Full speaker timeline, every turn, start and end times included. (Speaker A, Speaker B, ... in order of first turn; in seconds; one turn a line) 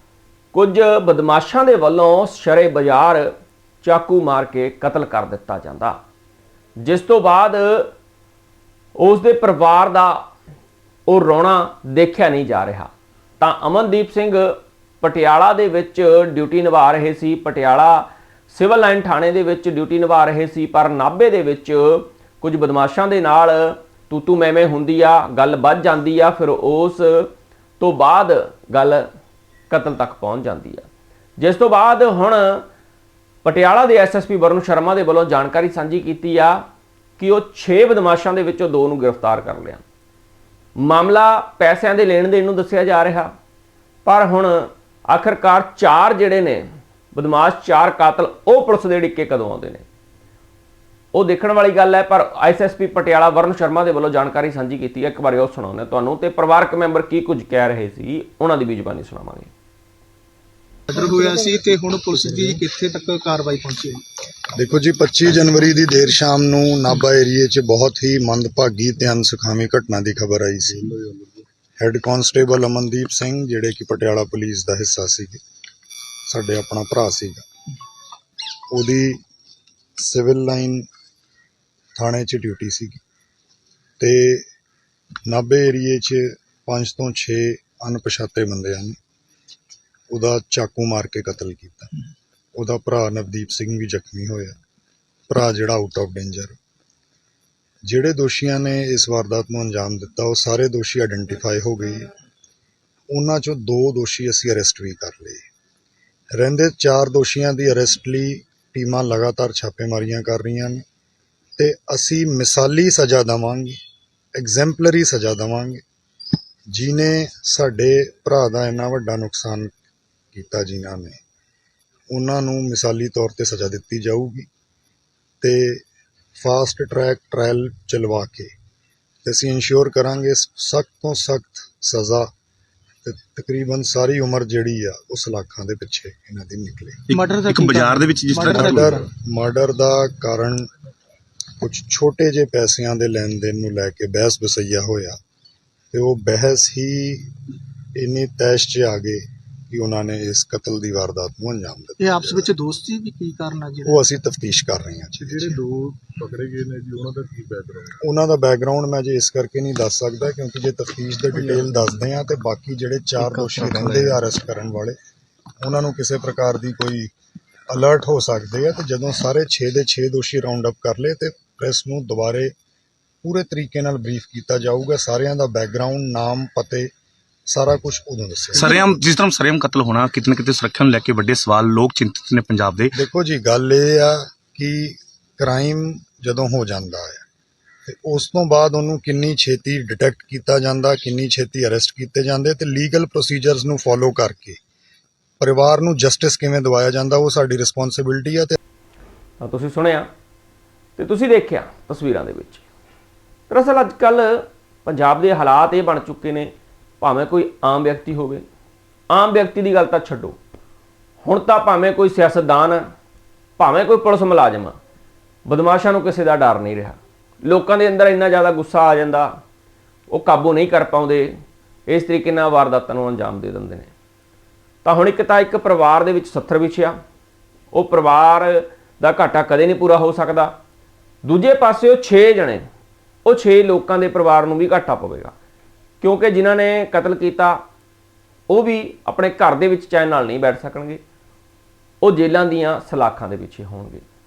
Speaker A: 0.5-3.3
Speaker A: 3.8-6.0
Speaker A: 6.8-7.9
Speaker A: 9.0-10.2
Speaker A: 11.1-29.1
Speaker A: 29.7-30.9
Speaker A: 31.4-32.6
Speaker A: 33.4-36.6
Speaker A: 37.2-39.8
Speaker A: 40.8-43.3
Speaker A: 44.0-49.9
Speaker A: 51.1-59.5
Speaker B: 60.9-64.0
Speaker C: 64.6-70.8
Speaker D: 70.8-71.4
Speaker C: 71.8-75.4
Speaker C: 76.3-77.5
Speaker C: 78.7-79.2
Speaker C: 80.0-80.9
Speaker C: 82.0-83.0
Speaker C: 84.0-84.5
Speaker C: 85.3-89.0
Speaker C: 90.1-92.0
Speaker C: 92.6-94.6
Speaker C: 95.3-96.6
Speaker C: 97.8-102.1
Speaker C: 103.1-105.4
Speaker C: 106.3-110.8
Speaker C: 111.6-113.8
Speaker C: 114.3-115.8
Speaker C: 116.7-119.7
Speaker C: 120.3-121.2
Speaker C: 122.1-124.5
Speaker C: 125.4-125.8
Speaker C: 126.4-128.5
Speaker C: 129.2-132.3
Speaker C: 133.0-137.0
Speaker E: 137.1-139.0
Speaker B: 137.1-139.1
Speaker C: 138.4-140.7
Speaker C: 141.6-145.2
Speaker C: 145.9-147.3
Speaker C: 147.9-152.5
Speaker B: 152.0-154.0
Speaker C: 153.8-155.6
Speaker D: 155.2-158.0
Speaker C: 158.0-164.9
Speaker C: 165.6-167.1
Speaker C: 167.7-172.5
Speaker C: 173.2-176.9
Speaker C: 177.5-178.9
Speaker E: 178.6-183.0
Speaker C: 182.9-187.2
Speaker C: 187.9-194.6
Speaker C: 195.4-198.6
Speaker A: 199.4-200.1
Speaker A: 201.0-202.6
Speaker A: 203.5-208.4
Speaker A: 209.1-210.4
Speaker A: 211.2-212.8
Speaker A: 213.6-214.8
Speaker A: 215.5-219.3
Speaker A: 220.1-221.3
Speaker A: 221.9-223.9
Speaker A: 224.8-227.0
Speaker A: 227.7-230.5
Speaker A: 231.2-232.7
Speaker A: 233.2-235.3
Speaker A: 236.0-237.6
Speaker A: 238.5-241.0
Speaker A: 242.0-244.0